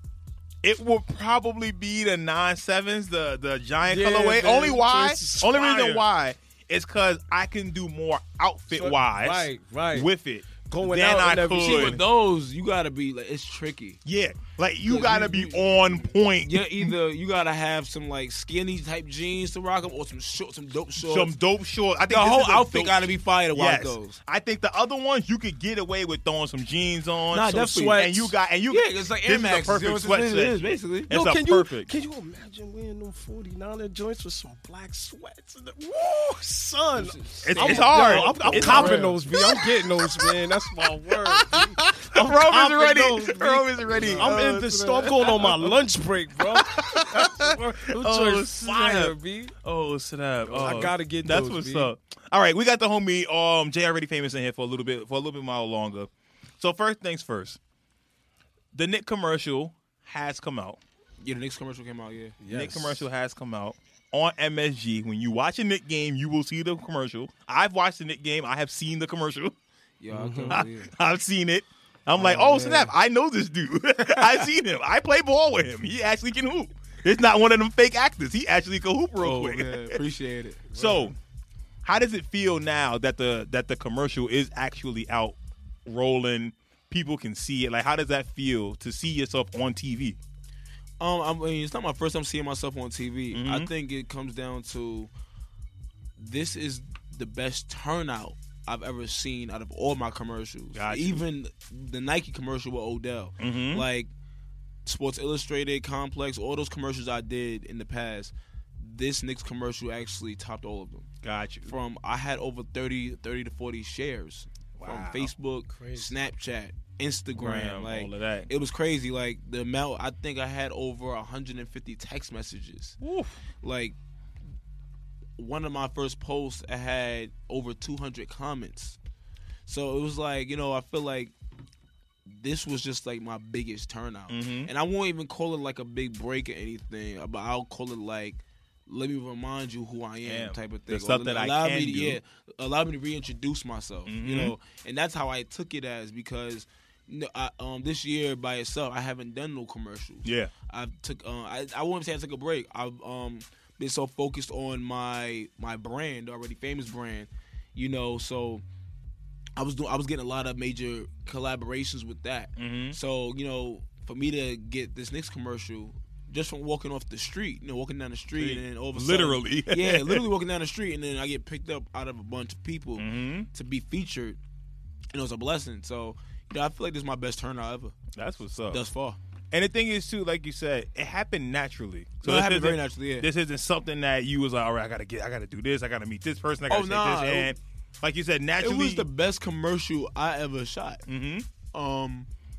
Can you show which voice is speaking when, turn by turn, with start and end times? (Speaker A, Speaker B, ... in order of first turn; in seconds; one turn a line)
Speaker A: 0.6-12.0
Speaker B: 3.8-6.0
Speaker B: 8.7-10.1
Speaker B: 10.6-12.0
Speaker C: 11.6-14.0
Speaker A: 14.0-16.9
Speaker C: 14.8-21.3
Speaker A: 21.0-31.9
Speaker C: 22.1-24.2
Speaker C: 27.3-28.1
Speaker B: 27.5-28.3
Speaker C: 28.7-31.1
Speaker B: 31.1-49.5
Speaker C: 37.0-39.2
Speaker A: 37.4-40.5
Speaker A: 41.1-45.8
Speaker C: 43.9-45.1
Speaker A: 46.4-57.6
Speaker B: 50.5-51.9
Speaker A: 58.7-60.8
Speaker C: 61.2-62.4
Speaker B: 62.4-63.1
Speaker A: 62.5-69.5
Speaker C: 70.0-70.9
Speaker B: 70.1-70.6
Speaker A: 70.5-80.0
Speaker C: 72.2-72.9
Speaker C: 79.2-80.7
Speaker A: 80.7-81.1
Speaker B: 80.7-81.1
Speaker A: 81.8-90.2
Speaker C: 91.0-95.1
Speaker A: 93.3-93.7
Speaker C: 96.2-104.1
Speaker A: 100.7-101.2
Speaker A: 103.4-103.9
Speaker C: 104.8-111.1
Speaker A: 111.2-111.7
Speaker C: 111.7-123.0
Speaker A: 114.8-115.3
Speaker B: 115.7-116.1
Speaker A: 117.3-118.5
Speaker A: 123.0-123.4
Speaker C: 123.6-124.0
Speaker C: 125.4-129.0
Speaker C: 129.7-131.3
Speaker C: 132.3-158.6
Speaker A: 134.3-134.7
Speaker A: 140.2-142.2
Speaker A: 144.1-144.5
Speaker A: 150.2-150.5
Speaker C: 159.6-174.4
Speaker A: 162.6-163.0
Speaker A: 168.3-170.2
Speaker A: 173.0-173.5
Speaker C: 175.1-178.0
Speaker A: 178.1-178.8
Speaker C: 178.7-179.2
Speaker A: 179.5-189.1
Speaker C: 182.2-183.3
Speaker C: 186.7-187.5
Speaker C: 188.6-191.0
Speaker A: 191.1-191.5
Speaker C: 191.7-192.3